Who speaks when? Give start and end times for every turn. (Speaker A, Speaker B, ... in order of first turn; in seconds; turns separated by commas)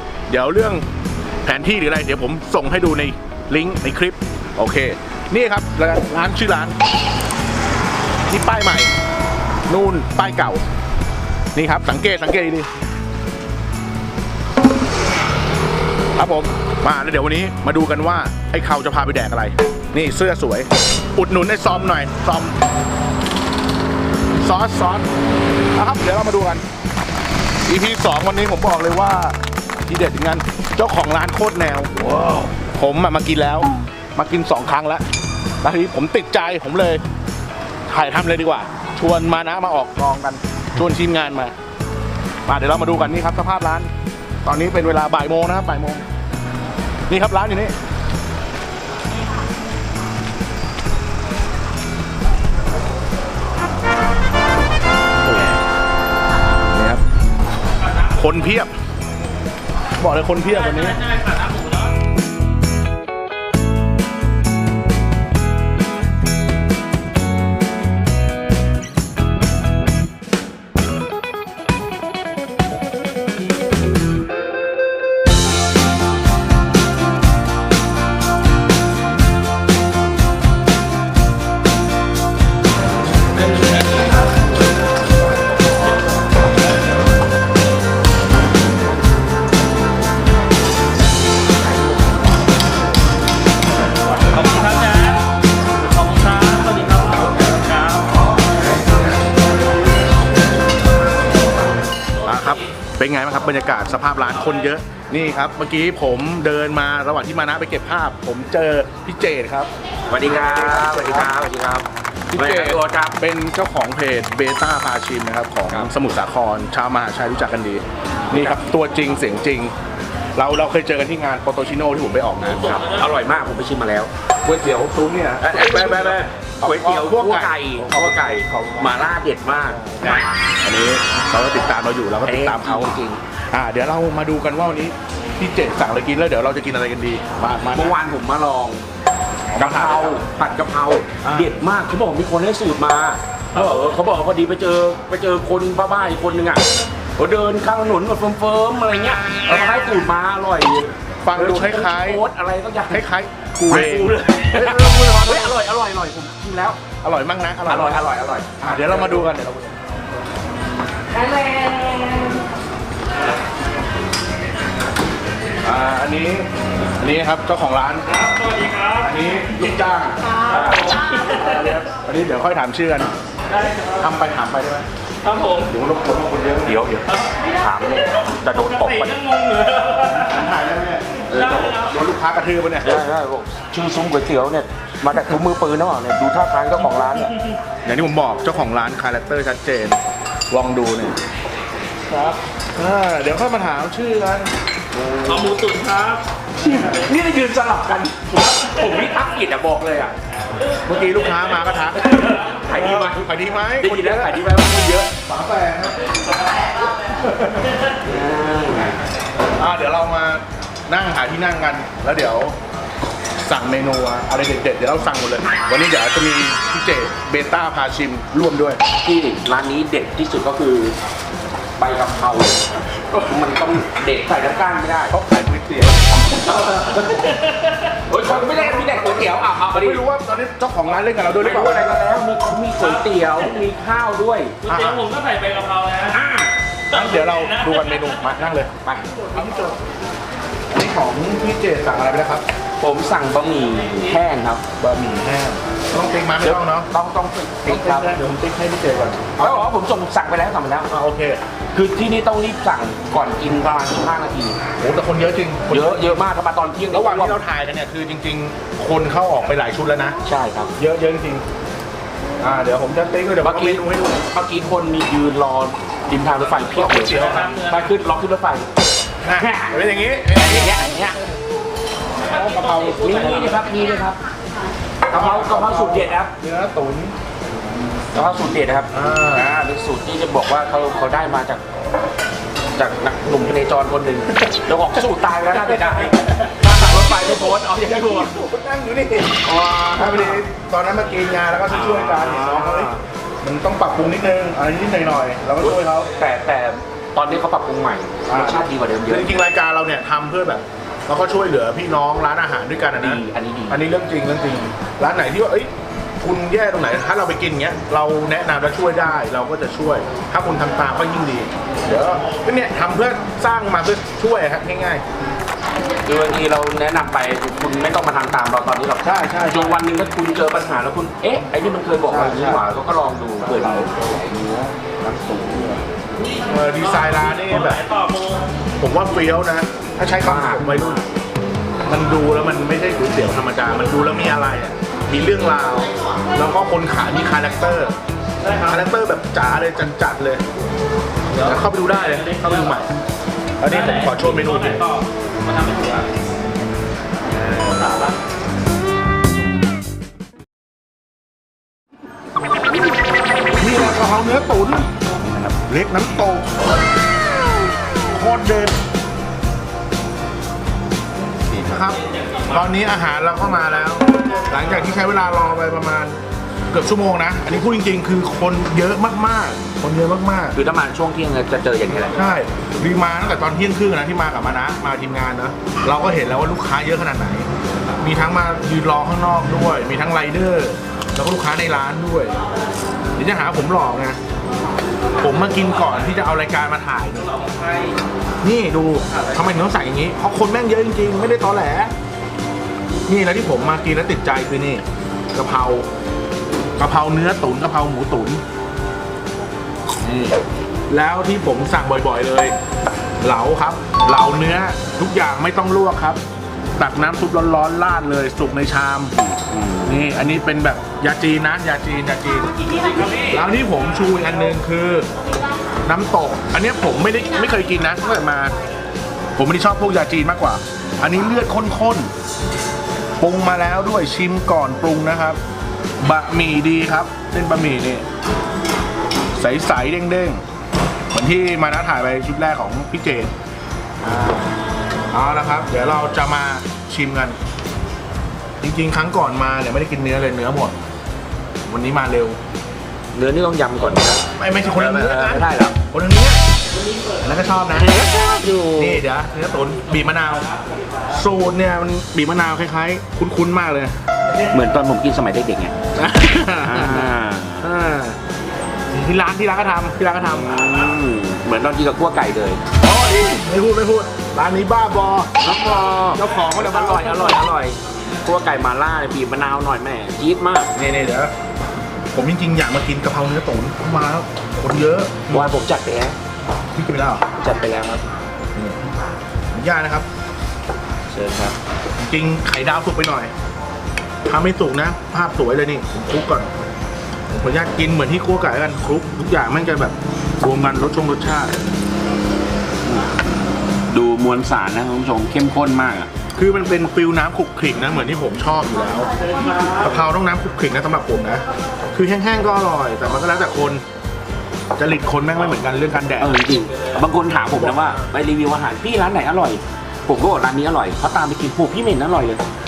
Speaker A: 0.3-0.8, Speaker A: 1.4-6.8, Speaker A: 8.3-8.9, Speaker A: 9.7-10.6, Speaker A: 11.5-12.7, Speaker A: 16.2-22.6, Speaker A: 24.4-25.1, Speaker A: 25.8-26.6, Speaker A: 27.7-35.0, Speaker A: 35.6-37.0, Speaker A: 37.9-41.5, Speaker A: 42.5-43.9, Speaker A: 44.4-46.0, Speaker A: 47.1-47.7, Speaker A: 55.2-55.5, Speaker A: 56.7-57.0, Speaker A: 58.1-58.7, Speaker A: 60.0-61.0, Speaker B: 60.5-62.0, Speaker B: 94.3-98.1, Speaker A: 102.2-111.3, Speaker B: 102.3-102.6, Speaker C: 110.1-113.2, Speaker A: 112.3-119.7, Speaker C: 118.3-118.6, Speaker A: 120.4-122.8, Speaker C: 122.4-124.1, Speaker B: 122.7-123.0, Speaker A: 124.4-133.0, Speaker C: 125.4-130.1, Speaker C: 132.2-133.2, Speaker A: 133.5-138.0, Speaker C: 137.7-138.8, Speaker A: 139.5-140.2, Speaker C: 139.5-146.6, Speaker A: 141.2-141.6, Speaker C: 147.2-153.0, Speaker A: 151.2-152.2, Speaker A: 152.9-155.6, Speaker C: 153.7-156.8, Speaker A: 157.0-158.1, Speaker C: 157.7-159.4, Speaker A: 158.6-159.7, Speaker C: 161.2-162.3, Speaker A: 165.6-166.5, Speaker A: 167.0-168.3, Speaker B: 168.2-169.1, Speaker A: 169.0-173.1, Speaker B: 170.5-171.3, Speaker B: 173.5-174.1, Speaker A: 173.9-174.9, Speaker B: 175.2-175.7, Speaker A: 175.7-177.0, Speaker C: 176.7-179.2, Speaker B: 178.6-180.2, Speaker A: 180.0-183.0, Speaker C: 181.3-181.8, Speaker B: 181.3-181.9, Speaker C: 182.8-187.3, Speaker A: 187.8-190.0, Speaker A: 190.5-191.2, Speaker A: 192.2-194.5, Speaker C: 194.9-195.5, Speaker B: 195.2-196.2, Speaker C: 196.6-200.2, Speaker A: 200.8-202.2, Speaker C: 202.3-203.3, Speaker A: 202.7-206.0, Speaker C: 203.8-205.1, Speaker A: 207.2-207.7, Speaker C: 208.0-209.0, Speaker A: 209.6-212.6, Speaker A: 213.4-218.8, Speaker C: 219.0-221.0, Speaker C: 221.8-225.2, Speaker A: 225.1-226.2, Speaker C: 226.3-227.5, Speaker C: 228.1-230.0, Speaker A: 228.2-232.0, Speaker C: 231.3-234.6, Speaker B: 232.8-233.4, Speaker B: 234.6-236.2, Speaker A: 234.7-235.0, Speaker C: 236.1-236.5, Speaker A: 236.9-238.7, Speaker B: 236.9-238.2, Speaker C: 238.8-239.3, Speaker A: 239.3-239.8, Speaker A: 240.7-242.4, Speaker C: 242.8-244.6, Speaker A: 244.8-246.9, Speaker C: 246.4-248.2, Speaker A: 247.7-249.7, Speaker C: 249.4-250.9, Speaker A: 250.9-251.4, Speaker C: 251.7-254.6, Speaker A: 254.8-256.2, Speaker C: 255.7-257.4, Speaker A: 256.9-260.2, Speaker C: 260.2-260.7, Speaker A: 260.8-261.4, Speaker A: 262.4-264.2, Speaker C: 263.4-268.7, Speaker A: 266.4-267.6, Speaker B: 267.1-267.9, Speaker A: 269.2-270.8, Speaker C: 269.3-271.2, Speaker B: 272.2-273.6, Speaker C: 272.3-274.2, Speaker A: 275.1-277.1, Speaker C: 275.1-276.3, Speaker C: 278.1-281.6, Speaker A: 278.9-279.5, Speaker C: 282.8-288.3, Speaker A: 284.4-296.1, Speaker C: 289.4-290.4, Speaker C: 291.7-293.0, Speaker C: 295.6-299.4, Speaker A: 298.3-315.0, Speaker C: 303.0-303.8, Speaker C: 316.1-324.1, Speaker A: 319.0-319.8, Speaker A: 322.1-322.7, Speaker A: 323.4-325.8, Speaker A: 326.5-327.8, Speaker B: 326.8-328.4, Speaker A: 328.8-331.0, Speaker C: 330.2-331.1, Speaker A: 331.9-338.0, Speaker B: 338.4-338.9, Speaker A: 338.7-340.4, Speaker B: 341.3-342.9, Speaker A: 341.3-342.9, Speaker A: 343.6-344.8, Speaker B: 343.6-346.1, Speaker B: 347.5-348.1, Speaker A: 353.6-354.9, Speaker C: 355.2-355.6, Speaker A: 355.7-356.5, Speaker A: 358.1-358.8, Speaker A: 361.6-366.2, Speaker B: 362.1-362.7, Speaker A: 366.7-370.6, Speaker C: 370.5-372.2, Speaker A: 372.1-377.5, Speaker A: 378.0-382.4, Speaker A: 383.2-384.2, Speaker A: 385.2-387.3, Speaker B: 387.2-388.0, Speaker A: 388.4-391.9, Speaker B: 389.1-389.4, Speaker A: 393.1-395.9, Speaker A: 396.8-398.4, Speaker A: 400.0-400.4, Speaker A: 400.9-402.6, Speaker A: 403.2-406.2, Speaker A: 406.8-409.1, Speaker C: 409.2-410.0, Speaker A: 409.9-412.5, Speaker B: 412.8-413.4, Speaker A: 413.3-415.1, Speaker A: 415.9-418.5, Speaker A: 419.4-422.1, Speaker A: 423.2-425.4, Speaker A: 426.0-428.1, Speaker A: 429.4-430.4, Speaker A: 431.1-433.3, Speaker A: 434.0-434.6, Speaker A: 435.1-437.4, Speaker A: 438.6-440.8, Speaker A: 441.6-442.4, Speaker C: 443.1-445.8, Speaker A: 444.4-446.4, Speaker A: 447.2-448.1, Speaker C: 447.7-449.0, Speaker A: 448.8-450.5, Speaker B: 449.9-450.8, Speaker A: 451.1-454.0, Speaker C: 454.5-455.8, Speaker A: 455.9-458.2, Speaker C: 456.6-457.7, Speaker A: 458.9-460.6, Speaker C: 460.2-462.6, Speaker A: 462.8-465.3, Speaker C: 465.4-470.7, Speaker A: 465.9-467.4, Speaker A: 470.7-471.3, Speaker A: 472.1-475.6, Speaker C: 475.3-476.2, Speaker A: 476.8-477.2, Speaker C: 477.4-478.1, Speaker A: 478.6-478.8, Speaker A: 479.5-480.1, Speaker C: 481.1-481.6, Speaker A: 482.1-483.3, Speaker A: 484.3-486.5, Speaker A: 487.3-491.6, Speaker C: 493.9-496.1, Speaker A: 496.4-499.1, Speaker B: 499.4-499.7, Speaker A: 499.8-503.8, Speaker A: 504.8-506.4, Speaker C: 506.2-512.5, Speaker A: 507.5-508.0